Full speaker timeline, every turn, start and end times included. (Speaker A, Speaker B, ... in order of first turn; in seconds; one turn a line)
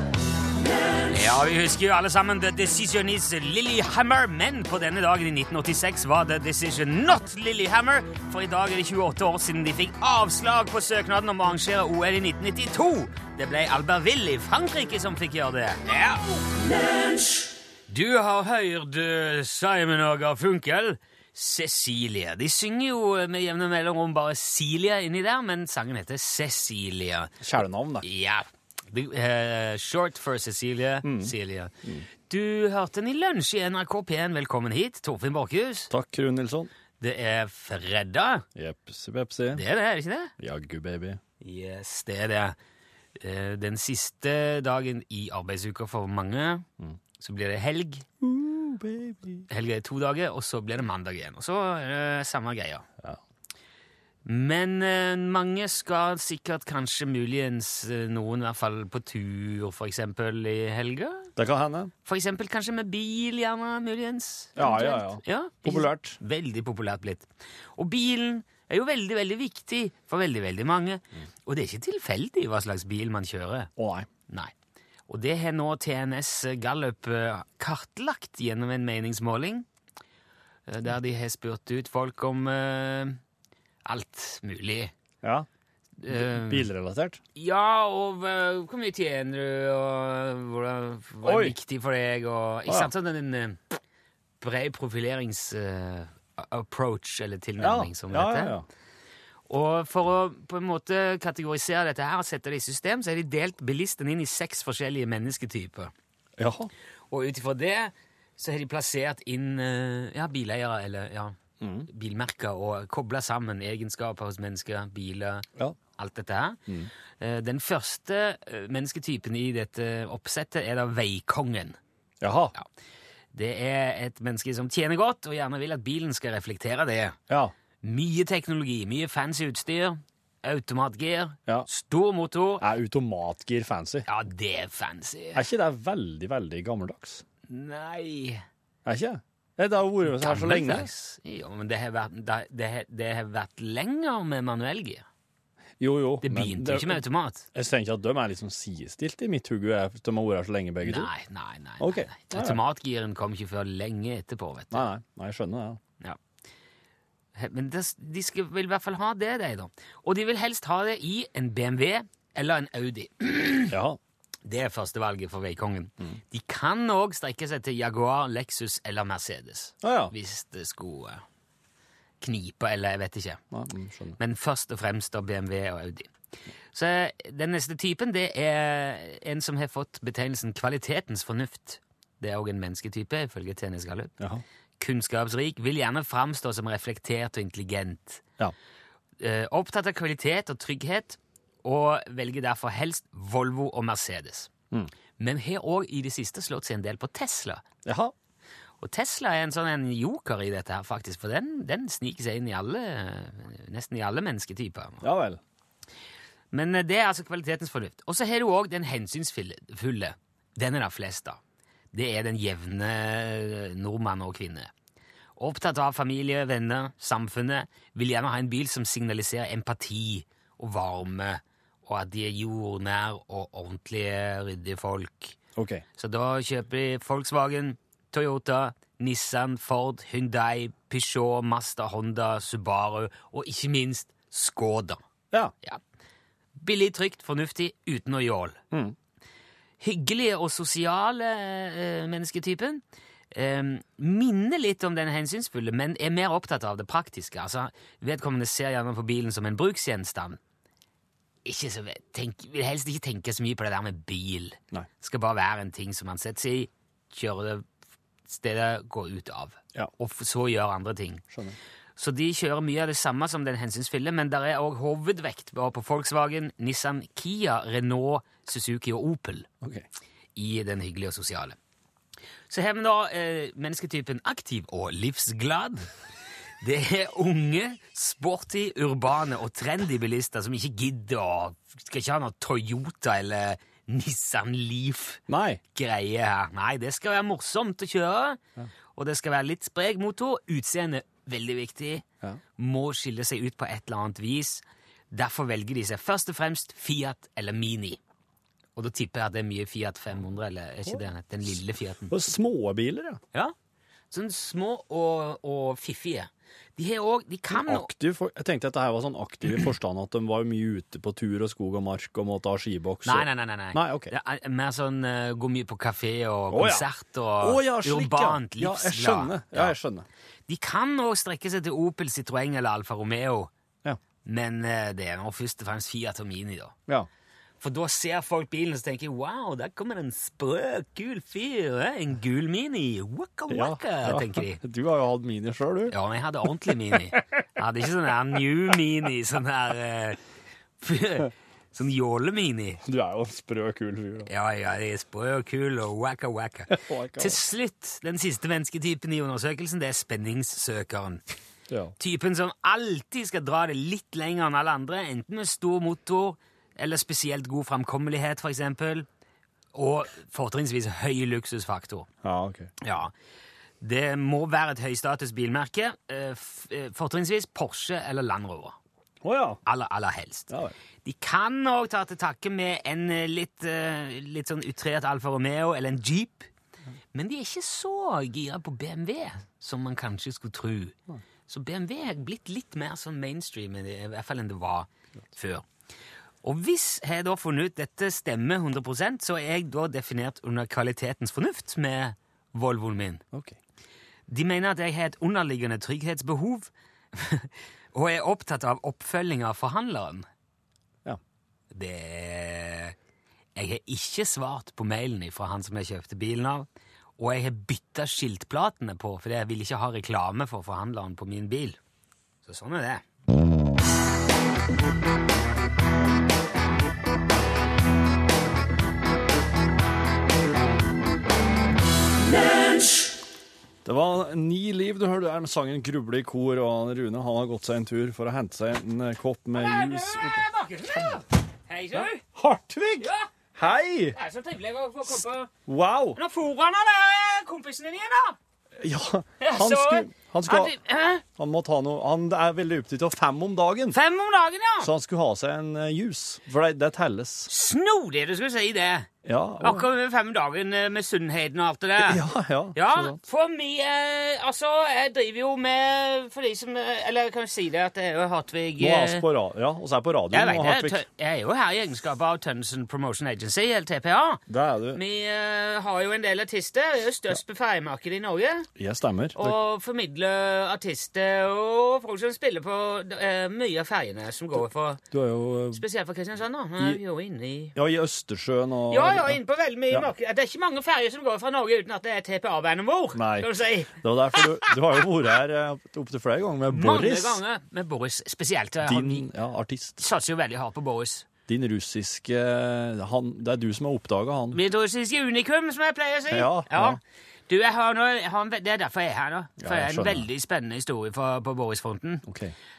Speaker A: 1.1-16.4
Speaker A: 17.9-27.3
Speaker B: 27.4-28.1
Speaker A: 28.0-31.7
Speaker B: 31.0-32.0
Speaker A: 32.3-35.9
Speaker B: 35.9-36.7
Speaker A: 37.0-38.5
Speaker B: 38.5-39.6
Speaker A: 39.5-40.3
Speaker B: 40.4-41.2
Speaker A: 41.4-42.5
Speaker A: 43.2-46.6
Speaker A: 47.2-48.0
Speaker B: 48.2-49.5
Speaker A: 49.5-52.9
Speaker A: 54.2-61.3
Speaker B: 61.4-61.9
Speaker A: 62.0-73.7
Speaker B: 64.6-66.2
Speaker B: 73.8-74.1
Speaker A: 75.1-79.7
Speaker A: 80.7-83.2
Speaker A: 83.8-84.9
Speaker B: 85.2-85.5
Speaker A: 86.0-86.7
Speaker B: 86.1-87.2
Speaker A: 87.4-93.6
Speaker B: 91.2-91.5
Speaker A: 94.4-98.5
Speaker B: 97.6-98.7
Speaker A: 99.5-105.9
Speaker B: 106.4-106.7
Speaker A: 107.1-111.3
Speaker B: 111.6-111.9
Speaker A: 111.9-116.6
Speaker A: 117.2-121.8
Speaker B: 122.2-122.5
Speaker A: 123.3-127.2
Speaker A: 127.8-132.6
Speaker B: 132.6-134.1
Speaker A: 134.1-135.4
Speaker B: 135.3-137.2
Speaker A: 137.5-138.4
Speaker B: 138.8-140.9
Speaker A: 140.1-145.1
Speaker B: 145.8-147.0
Speaker A: 146.2-147.5
Speaker B: 147.5-151.1
Speaker A: 150.8-154.8
Speaker B: 151.8-152.6
Speaker B: 154.7-155.8
Speaker A: 157.3-163.8
Speaker B: 163.7-164.0
Speaker A: 164.4-171.2
Speaker B: 169.8-170.1
Speaker A: 172.2-173.4
Speaker B: 173.5-174.2
Speaker A: 174.2-176.1
Speaker A: 176.7-184.1
Speaker A: 184.8-188.2
Speaker A: 189.2-194.5
Speaker A: 195.2-197.6
Speaker B: 197.8-198.1
Speaker A: 198.8-205.0
Speaker B: 205.0-205.4
Speaker A: 206.5-211.4
Speaker A: 211.9-214.7
Speaker A: 215.4-225.4
Speaker B: 225.6-225.8
Speaker A: 226.0-235.0
Speaker A: 236.6-238.6
Speaker A: 239.8-250.4
Speaker A: 251.4-257.6
Speaker A: 258.3-261.2
Speaker B: 261.3-261.6
Speaker A: 262.0-269.5
Speaker B: 269.6-269.9
Speaker A: 270.4-271.6
Speaker A: 272.5-275.9
Speaker A: 276.6-285.2
Speaker B: 285.3-285.6
Speaker A: 285.7-288.4
Speaker A: 288.9-292.1
Speaker A: 292.6-298.0
Speaker A: 298.8-302.1
Speaker B: 302.1-303.2
Speaker A: 304.1-307.9
Speaker B: 307.5-314.1
Speaker A: 313.1-319.8
Speaker B: 316.5-316.9
Speaker B: 317.4-320.1
Speaker A: 320.5-323.5
Speaker A: 324.2-326.8
Speaker A: 327.6-334.6
Speaker B: 333.5-335.9
Speaker A: 335.9-340.2
Speaker A: 340.8-342.8
Speaker B: 342.8-344.3
Speaker A: 344.2-351.2
Speaker B: 346.7-347.4
Speaker B: 351.7-351.9
Speaker A: 352.0-359.1
Speaker A: 359.7-362.1
Speaker B: 362.2-362.7
Speaker A: 362.8-363.1
Speaker A: 363.8-368.8
Speaker B: 369.2-369.6
Speaker A: 369.6-370.5
Speaker B: 370.5-370.7
Speaker A: 371.0-376.5
Speaker A: 377.1-381.0
Speaker A: 381.5-385.7
Speaker A: 386.4-393.2
Speaker B: 393.3-393.6
Speaker A: 394.3-400.2
Speaker A: 401.7-402.9
Speaker A: 403.6-406.7
Speaker A: 407.2-411.8
Speaker A: 412.4-413.0
Speaker B: 423.8-430.4
Speaker A: 429.6-432.2
Speaker B: 431.9-434.2
Speaker A: 433.0-433.3
Speaker A: 434.1-435.5
Speaker B: 435.7-436.2
Speaker A: 436.1-438.4
Speaker B: 438.8-440.7
Speaker A: 439.4-441.2
Speaker B: 441.4-444.0
Speaker A: 443.9-444.9
Speaker B: 444.8-447.5
Speaker A: 447.5-449.1
Speaker B: 449.2-449.9
Speaker A: 449.6-452.2
Speaker B: 452.0-453.2
Speaker A: 452.8-459.2
Speaker B: 458.8-461.0
Speaker A: 460.3-468.7
Speaker B: 464.5-465.0
Speaker B: 468.8-469.6
Speaker A: 469.4-475.0
Speaker B: 475.1-475.8
Speaker A: 475.7-477.8
Speaker B: 477.8-479.4
Speaker A: 478.9-484.7
Speaker B: 483.1-487.4
Speaker A: 486.7-489.3
Speaker B: 488.8-490.0
Speaker A: 490.0-491.2
Speaker B: 491.5-494.6
Speaker A: 494.5-502.2
Speaker B: 496.3-497.0
Speaker B: 499.6-500.3
Speaker B: 502.2-502.6